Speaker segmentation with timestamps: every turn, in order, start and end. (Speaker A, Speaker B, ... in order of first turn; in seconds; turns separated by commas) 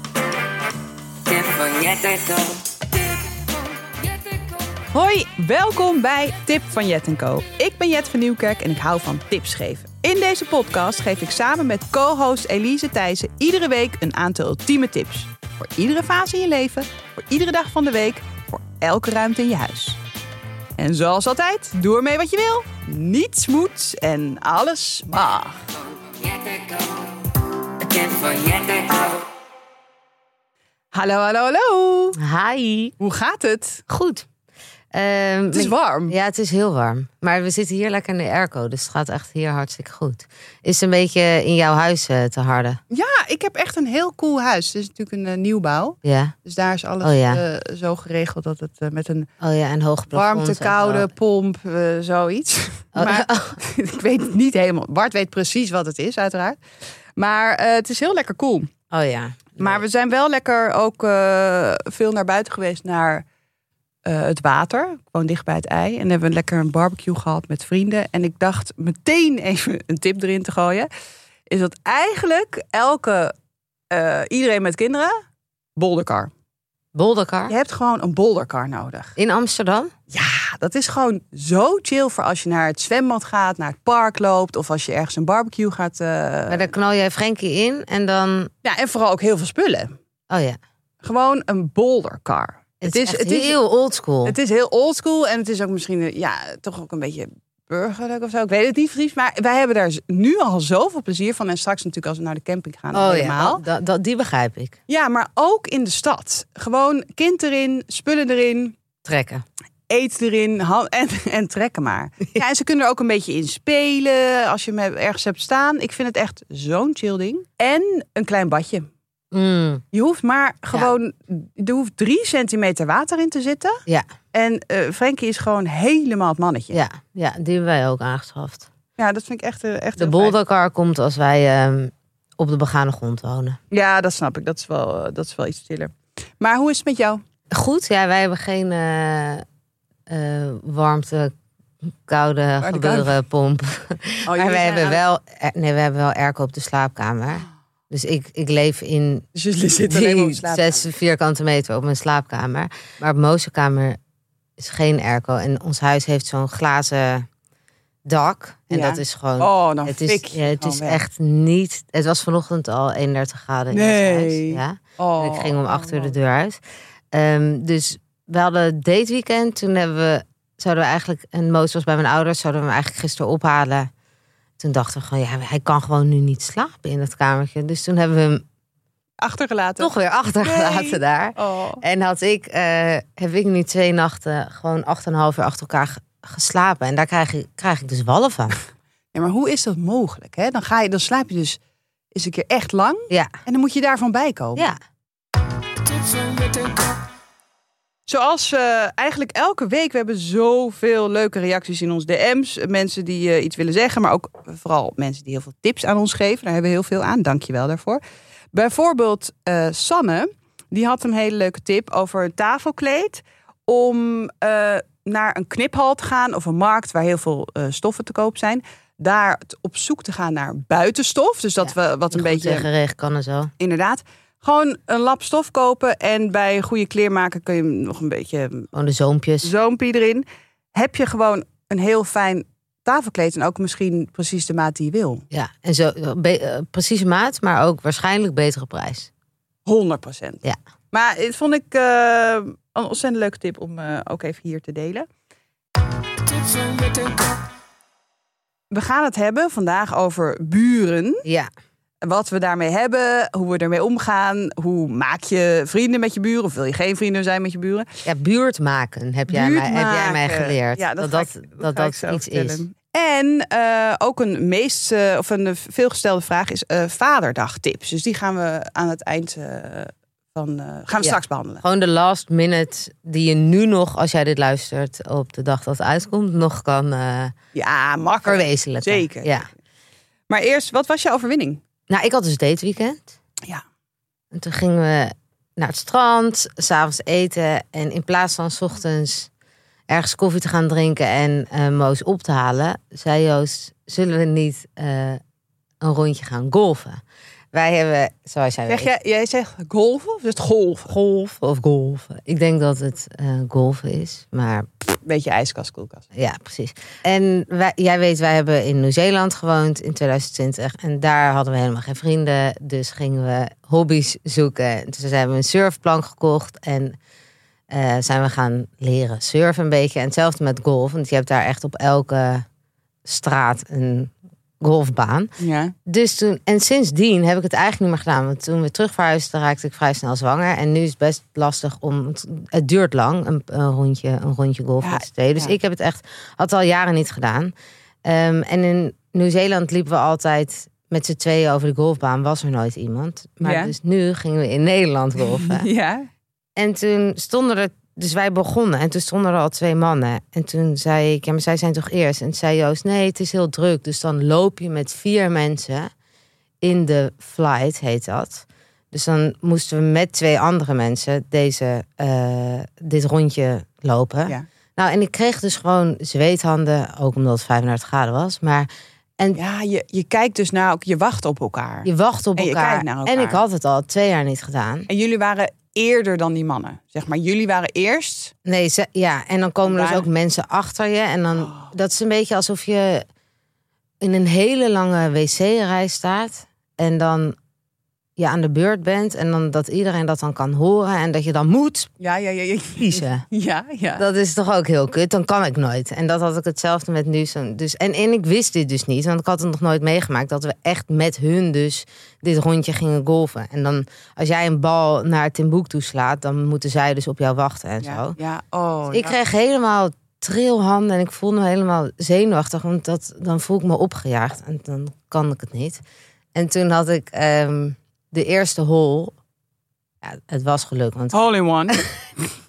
Speaker A: 1.2-4.5, Speaker B: 4.9-20.0, Speaker B: 20.8-25.6, Speaker A: 26.1-27.2, Speaker A: 27.8-29.2, Speaker B: 30.9-32.2, Speaker C: 32.2-32.9, Speaker B: 33.0-33.8, Speaker C: 33.9-34.2, Speaker C: 34.9-42.8, Speaker B: 35.5-36.1, Speaker B: 42.9-49.3, Speaker C: 46.0-46.3, Speaker C: 47.0-47.4, Speaker C: 49.4-51.1, Speaker B: 50.1-56.6, Speaker C: 52.9-53.6, Speaker B: 57.2-58.7, Speaker C: 58.9-59.8, Speaker B: 59.6-63.2, Speaker B: 64.0-70.9, Speaker B: 71.5-73.3, Speaker B: 73.9-75.2, Speaker B: 75.8-76.3, Speaker C: 76.9-77.5, Speaker B: 77.5-79.1, Speaker C: 79.2-79.9, Speaker B: 80.1-86.7, Speaker C: 86.5-88.5, Speaker B: 88.6-90.0, Speaker C: 90.3-90.6, Speaker B: 91.0-93.5, Speaker C: 92.8-94.3, Speaker B: 94.2-103.6, Speaker C: 102.9-104.8, Speaker B: 104.9-108.8, Speaker C: 109.0-109.4, Speaker B: 109.9-118.9, Speaker C: 119.3-119.8, Speaker B: 119.9-123.8, Speaker B: 124.3-126.8, Speaker C: 126.7-128.7, Speaker B: 129.0-130.3, Speaker C: 130.0-133.6, Speaker B: 133.7-137.2, Speaker C: 137.5-139.4, Speaker C: 140.1-141.3, Speaker C: 142.1-149.2, Speaker B: 142.6-143.1, Speaker B: 144.2-145.0, Speaker B: 149.3-150.9, Speaker C: 149.9-154.0, Speaker C: 154.6-157.3, Speaker C: 158.0-166.6, Speaker B: 158.7-161.0, Speaker B: 163.7-166.1, Speaker C: 167.1-173.9, Speaker C: 174.6-178.4, Speaker B: 179.2-181.8, Speaker C: 179.8-188.6, Speaker B: 189.1-191.6, Speaker B: 192.1-194.7, Speaker B: 198.1-208.0, Speaker B: 208.5-222.7, Speaker C: 221.6-223.5, Speaker B: 223.6-228.7, Speaker C: 228.7-229.5, Speaker B: 229.4-235.2, Speaker C: 235.3-239.1, Speaker B: 239.7-245.1, Speaker B: 248.7-251.2, Speaker B: 252.0-257.9, Speaker C: 258.0-262.6, Speaker B: 259.3-271.6, Speaker C: 271.0-277.3, Speaker B: 277.5-279.3, Speaker C: 278.2-279.5, Speaker B: 280.3-281.6, Speaker C: 281.9-283.1, Speaker C: 284.3-289.3, Speaker C: 289.9-295.2, Speaker C: 295.8-297.0, Speaker C: 297.5-298.9, Speaker B: 298.7-300.9, Speaker C: 300.9-304.7, Speaker B: 305.0-306.0, Speaker C: 306.1-317.0, Speaker C: 317.7-322.4, Speaker C: 323.0-325.3, Speaker B: 325.4-325.7, Speaker C: 325.9-337.5, Speaker B: 334.8-335.5, Speaker C: 338.0-345.7, Speaker B: 343.4-343.7, Speaker B: 345.3-346.1, Speaker C: 346.6-355.9, Speaker C: 356.6-368.7, Speaker B: 369.3-373.4, Speaker C: 371.8-374.9, Speaker B: 374.9-378.3, Speaker C: 378.4-383.0, Speaker B: 379.6-380.1, Speaker B: 381.3-381.7, Speaker C: 384.0-387.4, Speaker C: 388.2-391.9, Speaker B: 392.0-394.0, Speaker C: 392.8-393.2, Speaker C: 394.0-408.1, Speaker B: 407.8-409.1, Speaker C: 408.9-415.8, Speaker C: 416.3-419.1, Speaker C: 420.0-421.1, Speaker B: 421.1-422.3